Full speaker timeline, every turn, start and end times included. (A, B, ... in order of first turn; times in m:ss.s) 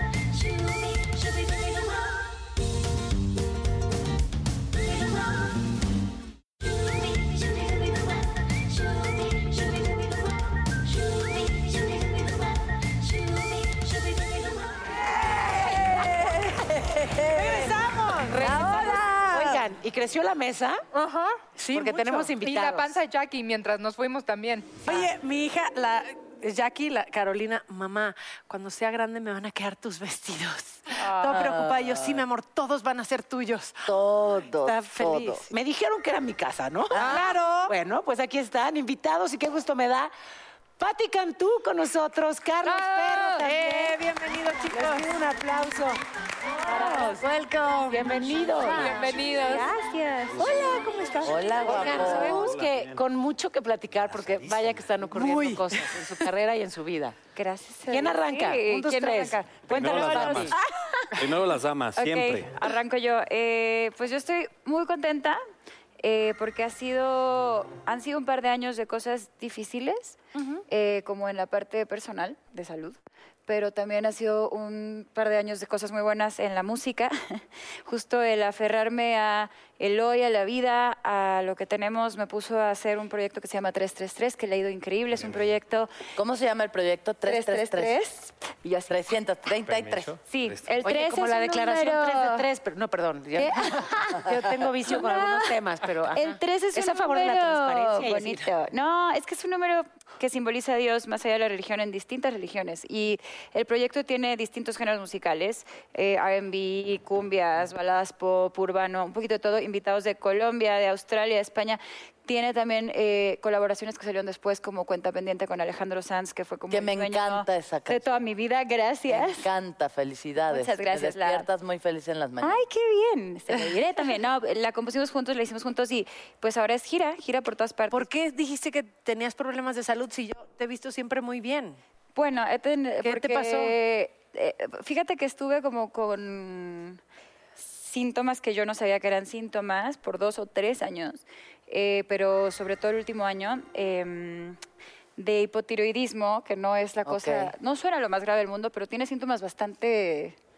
0:15.2-0:17.8 A
0:17.2-0:19.4 B
0:18.3-0:19.6 A
0:18.3-0:20.8 C
0:21.0-0:22.3 B
0:21.7-0:23.0 C
0:22.3-0:25.0 D
0:24.8-0:34.0 B
0:31.0-0:31.4 D
0:31.3-0:32.2 A
0:33.8-0:35.4 A
0:34.6-0:35.5 B
0:35.5-0:37.1 C
0:36.9-0:37.2 A
0:36.9-0:37.7 B
0:37.0-0:37.3 D
0:37.7-0:40.1 C
0:40.8-0:44.0 C
0:42.6-0:43.5 D
0:43.4-0:45.1 B
0:44.6-0:46.0 C
0:46.6-0:47.2 C
0:46.6-0:49.7 B
0:47.9-0:49.2 C
0:48.6-0:49.7 D
0:48.8-0:50.3 E
0:50.2-0:52.3 B
0:51.2-0:52.4 A
0:51.6-0:57.2 C
0:51.6-0:53.0 F
0:53.9-0:55.0 F
0:57.4-1:01.3 E
0:57.9-1:00.6 C
0:59.7-1:00.5 F
1:01.2-1:02.5 F
1:02.0-1:05.4 E
1:06.0-1:25.9 E
1:10.3-1:10.6 C
1:25.2-1:25.4 F
1:26.2-1:28.0 A
1:27.2-1:29.0 E
1:28.9-1:30.2 A
1:29.6-1:30.8 F
1:30.3-1:32.4 E
1:30.8-1:38.5 C
1:33.4-1:34.3 E
1:34.8-1:35.6 E
1:36.1-1:59.5 E
1:56.7-1:58.2 A
1:59.1-2:02.6 A
2:00.4-2:01.4 E
2:02.4-2:08.1 E
2:07.9-2:11.8 B
2:12.1-2:17.0 E
2:13.0-2:13.8 B
2:17.6-2:24.6 E
2:25.2-2:30.4 E
2:27.0-2:27.5 A